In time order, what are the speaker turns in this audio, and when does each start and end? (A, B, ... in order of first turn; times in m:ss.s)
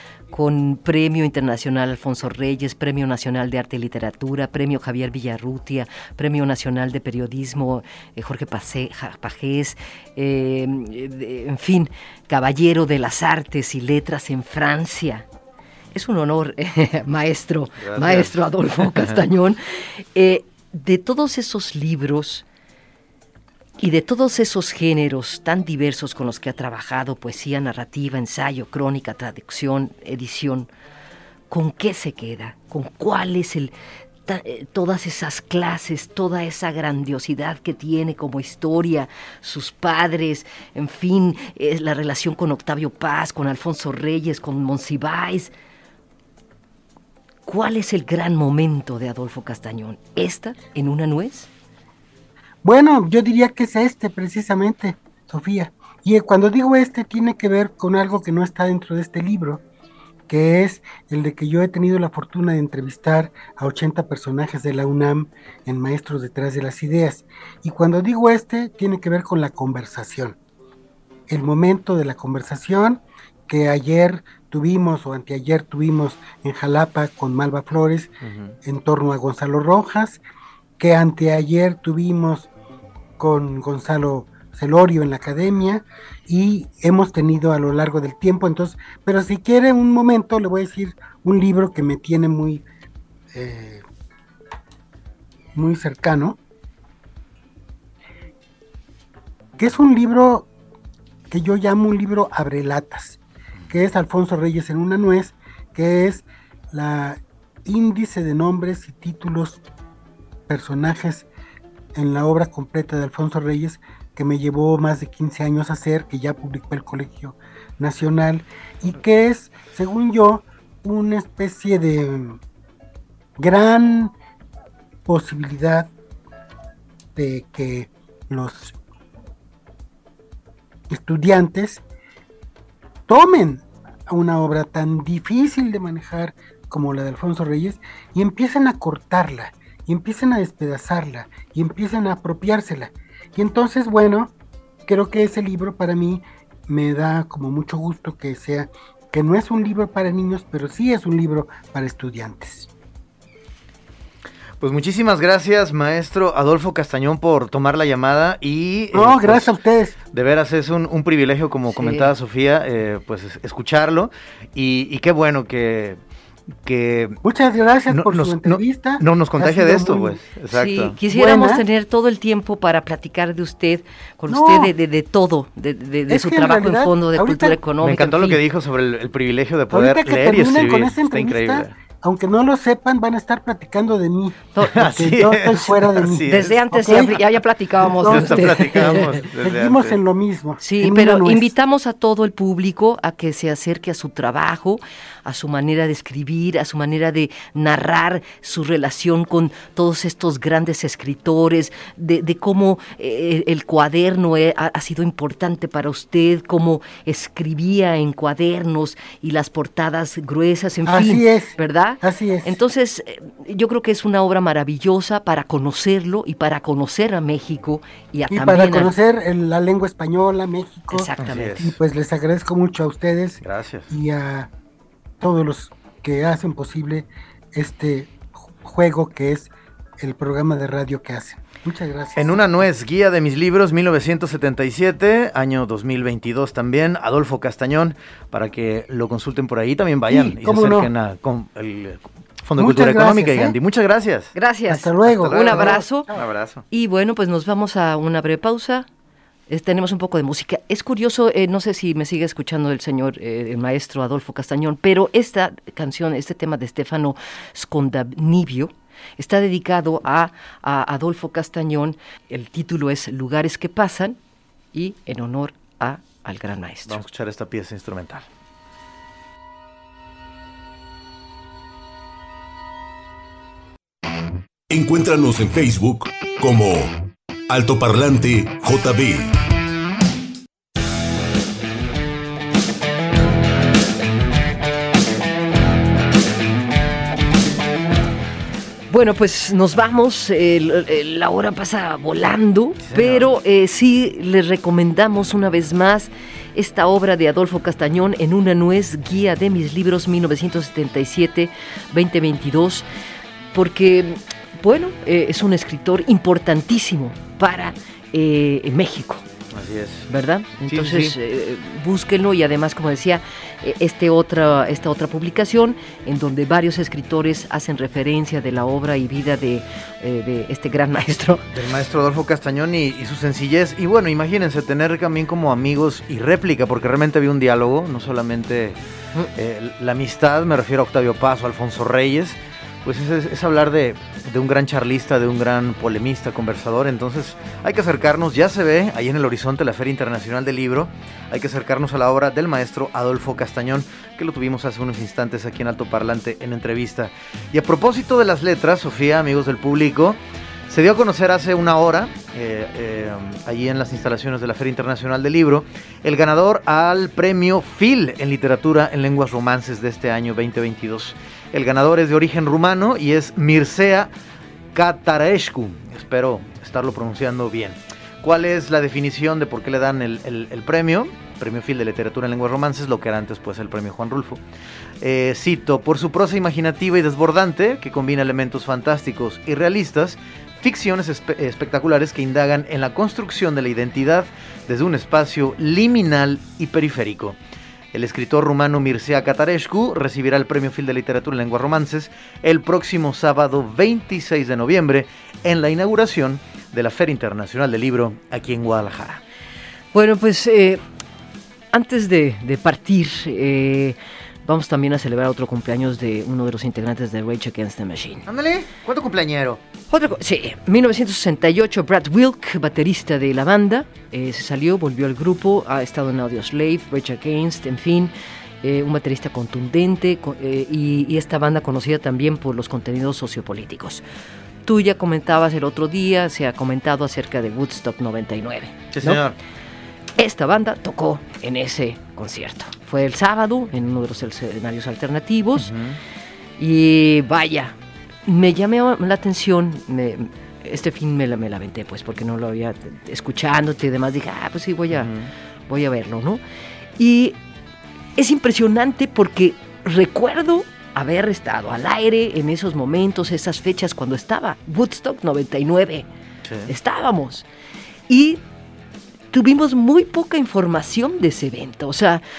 0:00.3-0:15.2 A
0:15.9-0:22.4 A
0:17.8-0:19.1 B
0:23.8-0:30.7 A
0:31.5-0:33.7 A
0:34.2-0:45.5 A
0:47.4-0:51.5 A
0:52.6-0:59.6 C
1:00.3-1:10.4 C
1:11.3-1:18.1 C
1:18.2-1:18.5 B
1:18.6-1:20.2 C
1:20.8-1:22.5 C
1:23.2-1:32.6 C
1:33.3-1:33.8 C
1:35.5-1:36.4 C
1:39.6-1:40.5 C
1:41.3-1:49.6 C
1:50.5-1:51.3 C
1:51.9-2:02.4 C
2:03.4-2:04.1 C
2:05.0-2:05.9 C
2:07.2-2:08.8 C
2:10.9-2:11.8 C
2:13.1-2:24.3 C
2:24.8-2:32.7 C
2:34.6-2:39.5 B
2:38.9-2:40.0 C
2:40.1-2:46.0 B
2:41.7-2:42.1 A
2:46.6-2:47.2 B
2:47.2-2:50.2 C
2:47.9-2:51.0 B
2:50.5-2:58.4 A
2:51.1-2:51.6 C
2:54.3-2:54.7 C
2:56.1-2:57.6 C
2:57.8-3:01.8 B
2:59.7-3:07.2 C
3:04.6-3:04.9 A
3:04.7-3:07.2 B
3:06.2-3:09.2 A
3:07.9-3:10.0 B
3:08.0-3:11.5 C
3:10.6-3:38.9 A
3:30.8-3:32.6 C
3:38.3-3:44.5 C
3:40.9-3:41.7 A
3:41.2-3:41.7 B
3:43.4-3:43.9 B
3:45.2-3:52.4 C
3:52.2-4:04.3 B
4:00.1-4:00.9 C
4:02.6-4:03.6 C
4:04.3-4:06.1 A
4:04.7-4:05.8 C
4:05.1-4:06.6 B
4:06.7-4:08.8 A
4:09.5-4:24.2 A
4:24.7-4:27.0 A
4:26.9-4:28.2 B
4:34.7-4:39.3 D
4:48.9-5:02.8 A
4:52.8-4:53.3 B
5:03.5-5:09.2 A
5:09.5-5:10.1 B
5:10.1-5:21.5 A
5:10.7-5:11.1 B
5:21.5-5:28.8 B
5:29.3-5:50.2 B
5:50.7-6:04.1 B
6:04.7-6:14.4 B
6:15.0-6:27.4 B
6:27.9-6:39.2 B
6:39.9-6:40.8 A
6:41.7-6:48.2 A
6:48.2-6:49.6 B
6:49.9-7:04.0 A
7:04.6-7:09.2 A
7:08.9-7:09.4 B
7:10.2-7:15.7 A
7:15.6-7:16.0 B
7:16.6-7:25.1 A
7:24.9-7:25.3 B
7:25.7-7:26.4 A
7:27.0-7:27.4 A
7:28.2-7:36.1 A
7:36.7-7:37.4 A
7:38.1-7:38.4 A
7:39.3-7:42.2 A